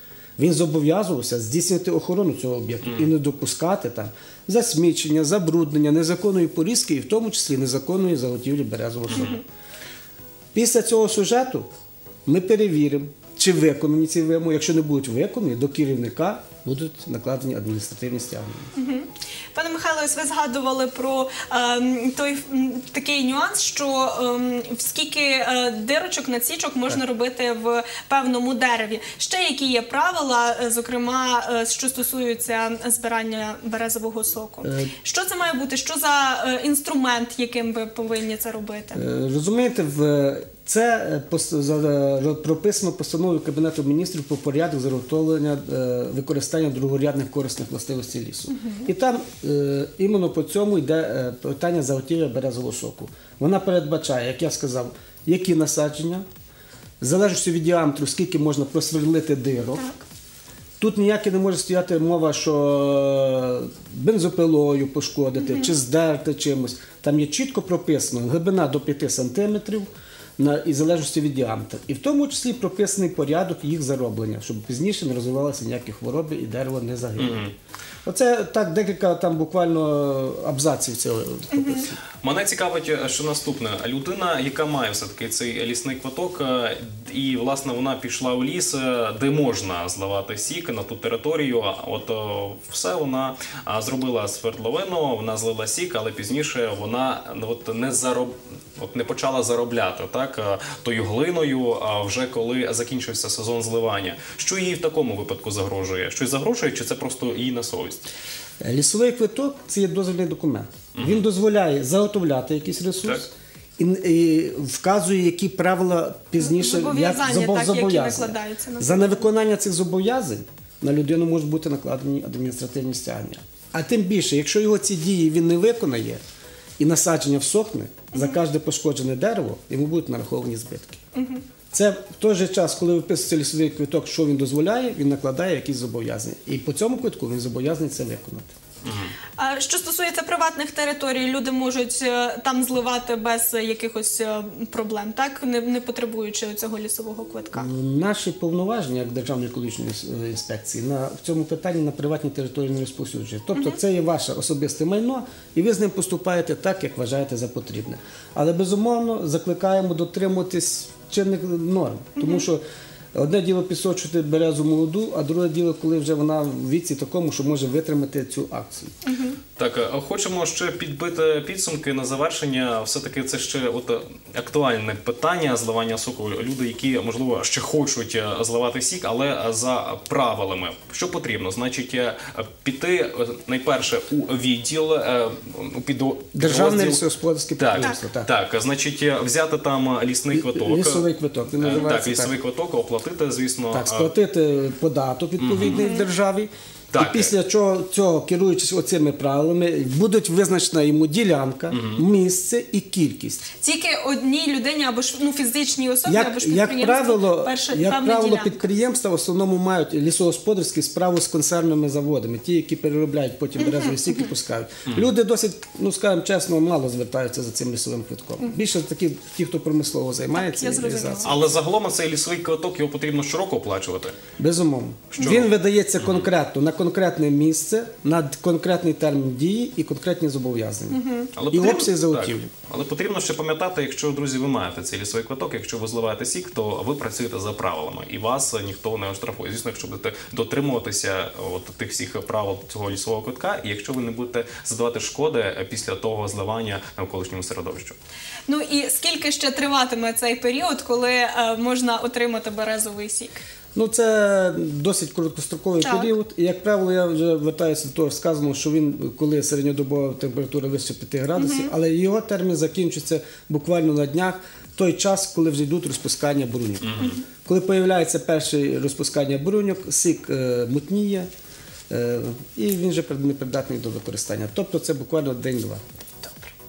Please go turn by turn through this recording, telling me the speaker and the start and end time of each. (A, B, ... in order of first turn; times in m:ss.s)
0:00.4-0:09.4 A
0:09.1-0:09.4 B
0:10.5-0:11.7 A
0:12.2-0:18.7 A
0:18.7-0:39.0 C
0:34.6-0:34.9 A
0:38.9-0:56.2 A
0:48.5-0:48.9 C
0:57.0-0:59.9 A
0:59.8-1:00.0 C
1:00.8-1:17.5 A
1:05.4-1:05.7 C
1:17.2-1:17.5 B
1:18.0-1:21.9 A
1:21.5-1:21.9 C
1:22.2-1:48.0 B
1:48.6-2:06.2 A
1:50.9-1:51.2 B
1:56.4-1:59.2 C
2:06.8-2:11.0 A
2:11.1-2:11.4 C
2:11.7-2:18.5 A
2:18.8-2:19.1 B
2:19.4-2:27.7 C
2:27.5-2:42.6 A
2:33.5-2:33.8 C
2:42.2-2:42.5 C
2:43.1-2:48.9 A
2:49.0-2:49.4 C
2:49.6-3:07.0 B
3:06.3-3:08.3 A
3:07.6-3:11.0 B
3:10.3-3:12.3 A
3:11.6-3:14.1 B
3:13.7-3:23.4 A
3:15.4-3:15.8 B
3:15.6-3:16.1 C
3:16.9-3:17.3 B
3:21.7-3:22.0 B
3:23.6-3:28.7 C
3:26.0-3:41.4 A
3:33.6-3:34.3 C
3:34.9-3:35.1 B
3:40.3-3:41.4 C
3:41.2-3:44.2 B
3:44.4-3:52.5 A
3:45.1-3:46.3 B
3:50.9-3:51.3 C
3:51.4-4:08.0 B
4:08.5-4:13.4 C
4:13.7-4:31.3 A
4:15.8-4:16.1 C
4:21.4-4:21.7 C
4:26.8-4:27.2 B
4:31.9-4:35.8 A
4:36.2-4:36.5 C